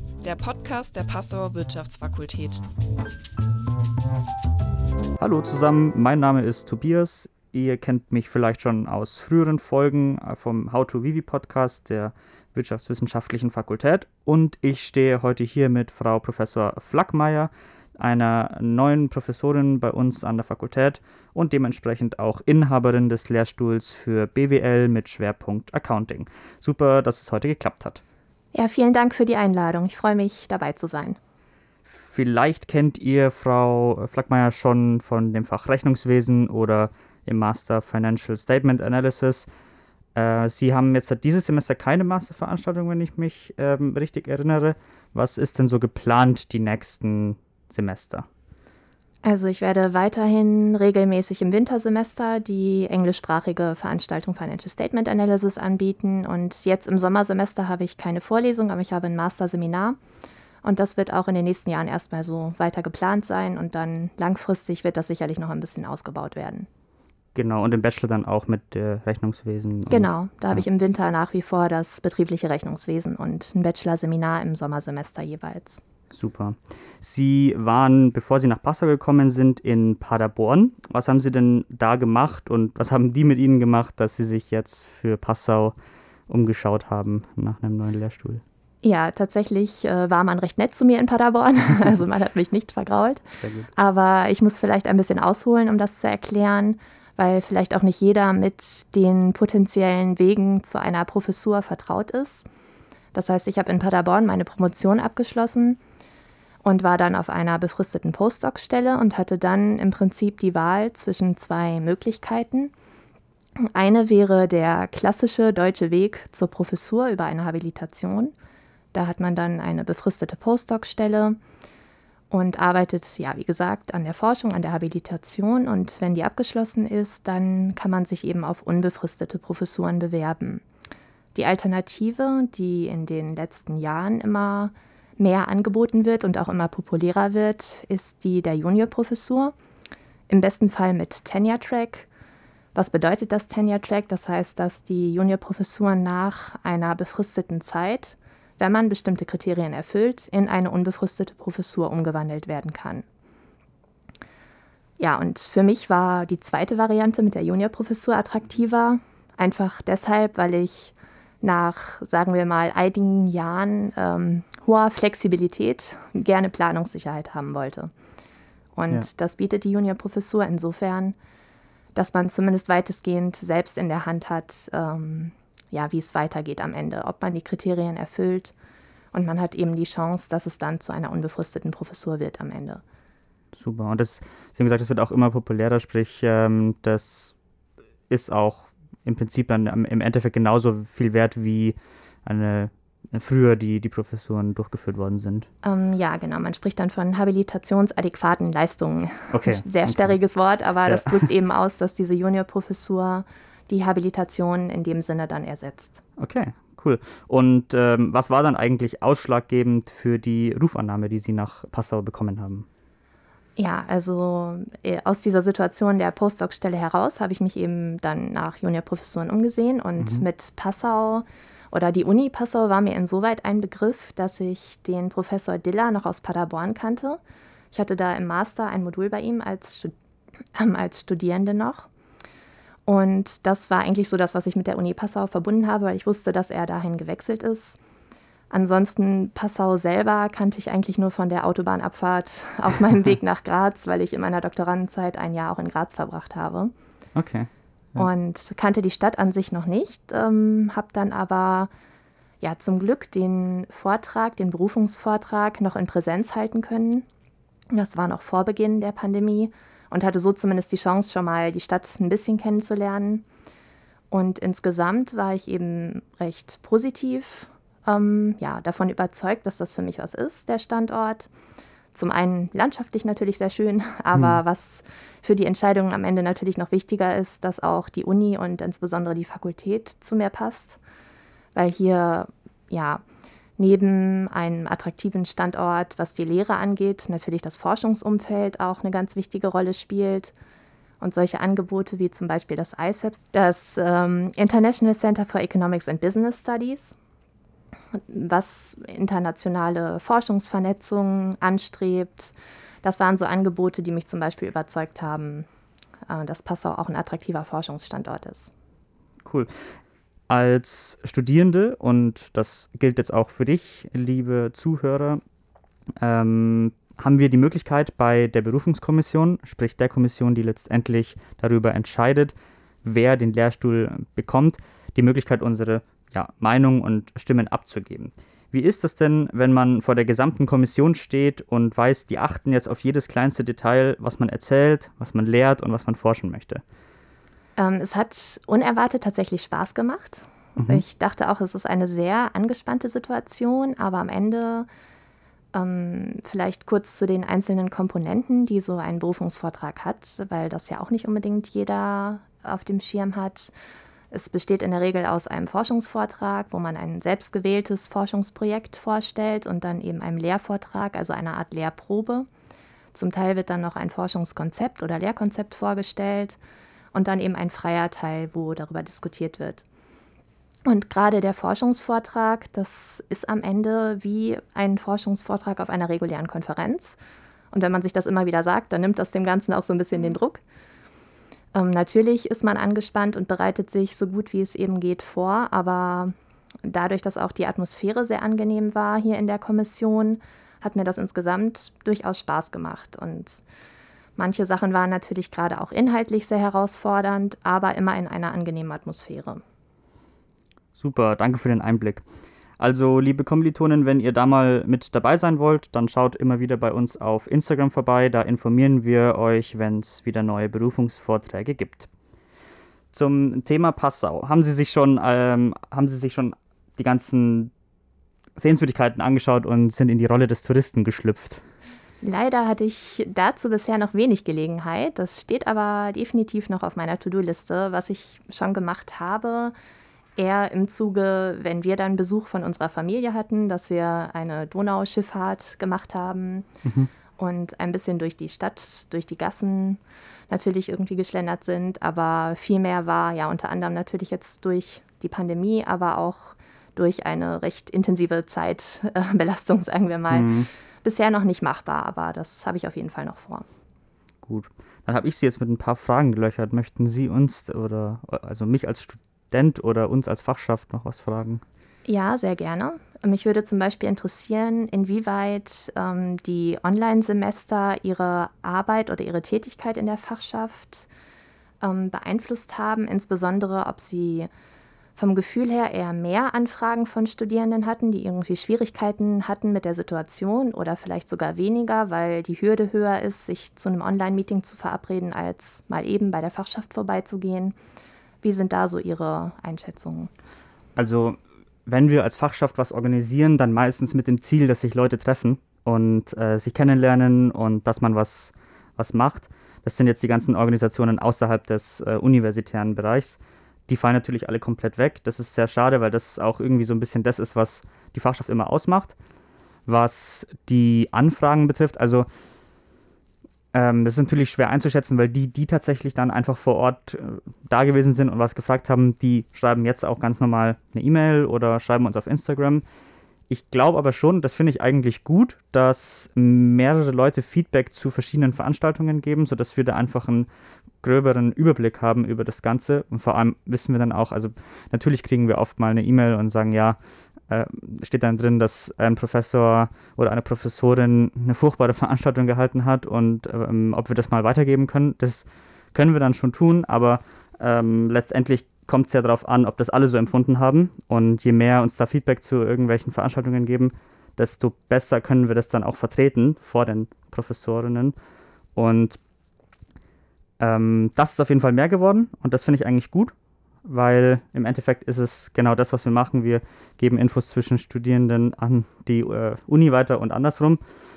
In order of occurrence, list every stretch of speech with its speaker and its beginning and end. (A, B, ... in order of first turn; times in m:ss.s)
0:00.2-0:02.6 A
0:05.2-0:28.0 B
0:28.5-0:31.2 C
0:31.9-0:39.5 B
0:40.2-0:48.2 B
0:49.2-1:00.0 C
1:00.6-1:06.7 C
1:07.3-1:10.6 B
1:09.9-1:15.8 C
1:16.1-1:25.8 B
1:26.3-1:28.4 B
1:28.8-1:42.4 C
1:33.4-1:33.7 B
1:43.1-1:45.8 C
1:46.6-1:52.7 C
1:53.6-1:58.3 C
1:58.9-2:01.4 C
2:02.3-2:10.6 C
2:11.3-2:19.5 C
2:20.3-2:22.1 C
2:22.7-2:33.0 C
2:35.0-2:47.9 C
2:48.8-2:51.2 C
2:51.9-2:58.5 C
2:59.1-3:02.8 C
3:03.5-3:07.3 B
3:08.1-3:15.5 B
3:15.6-3:26.0 C
3:19.3-3:20.2 B
3:20.8-3:21.3 B
3:26.2-3:32.7 B
3:33.6-3:47.2 C
3:40.0-3:40.2 B
3:47.7-3:49.9 C
3:50.5-3:51.9 C
3:52.8-3:57.8 C
3:58.5-4:06.7 C
4:07.1-4:08.1 B
4:08.0-4:11.7 C
4:12.4-4:17.1 C
4:17.7-4:23.2 C
4:24.1-4:31.3 C
4:31.9-4:40.8 C
4:34.1-4:34.4 B
4:41.5-4:43.0 C
4:43.6-4:50.4 C
4:51.0-4:56.9 C
4:57.9-5:05.5 C
5:06.1-5:08.5 C
5:09.2-5:09.5 B
5:10.3-5:15.2 B
5:16.0-5:36.6 B
5:37.6-5:44.7 C
5:40.6-5:40.8 B
5:45.5-5:53.5 C
5:54.1-6:02.3 C
6:02.9-6:06.4 C
6:06.9-6:09.6 C
6:10.6-6:17.0 C
6:17.5-6:20.4 C
6:21.5-6:26.1 C
6:26.6-6:33.4 C
6:34.2-6:39.4 C
6:40.8-6:42.0 B
6:42.6-6:51.9 B
6:52.9-6:57.5 B
6:58.4-7:01.4 B
7:02.0-7:09.5 C
7:10.2-7:16.5 C
7:16.6-7:16.9 B
7:17.2-7:33.5 C
7:30.1-7:30.5 B
7:34.2-7:41.4 B
7:41.9-7:50.9 C
7:51.6-7:54.3 C
7:55.0-8:07.6 C
8:08.2-8:10.1 C
8:10.8-8:28.9 B
8:29.7-8:32.1 B
8:33.5-8:42.6 B
8:43.3-8:50.3 B
8:50.8-8:56.8 B
8:57.3-9:17.9 B
9:18.6-9:19.0 B
9:20.4-9:23.1 B
9:23.6-9:30.6 B